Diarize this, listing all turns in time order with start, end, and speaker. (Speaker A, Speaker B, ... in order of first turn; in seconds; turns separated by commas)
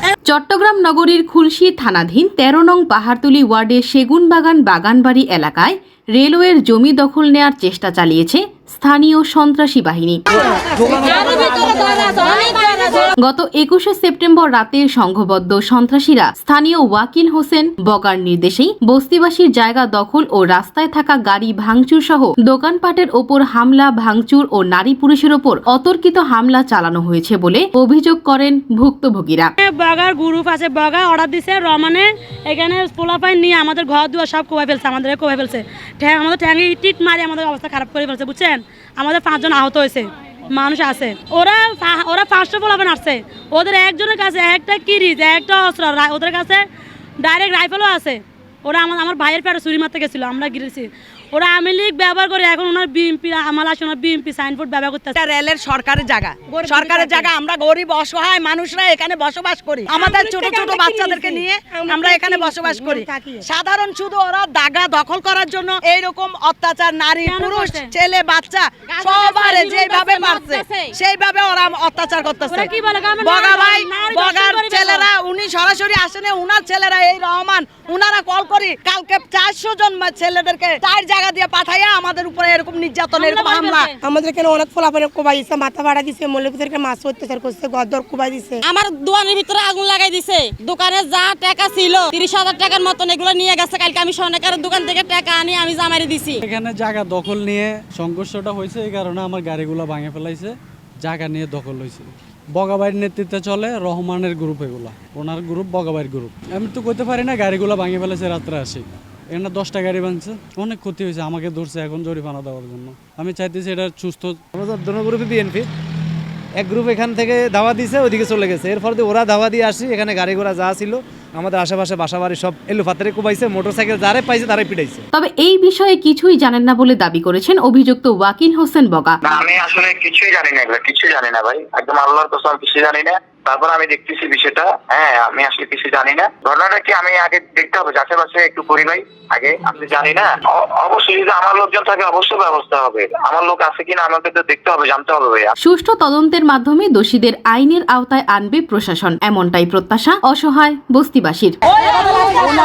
Speaker A: 0.3-10.2, Speaker B: 10.8-13.1, Speaker A: 13.2-29.5, Speaker C: 29.6-46.6, Speaker C: 47.2-55.2, Speaker D: 55.1-83.9, Speaker E: 56.5-57.3, Speaker E: 59.9-63.5, Speaker C: 67.2-67.9, Speaker B: 68.9-71.0, Speaker C: 72.5-75.1, Speaker C: 83.1-83.9, Speaker E: 84.0-88.6, Speaker B: 88.6-96.4, Speaker F: 96.4-114.4, Speaker G: 114.5-115.7, Speaker G: 116.6-125.0, Speaker A: 125.1-129.2, Speaker H: 129.3-145.5, Speaker A: 145.6-151.6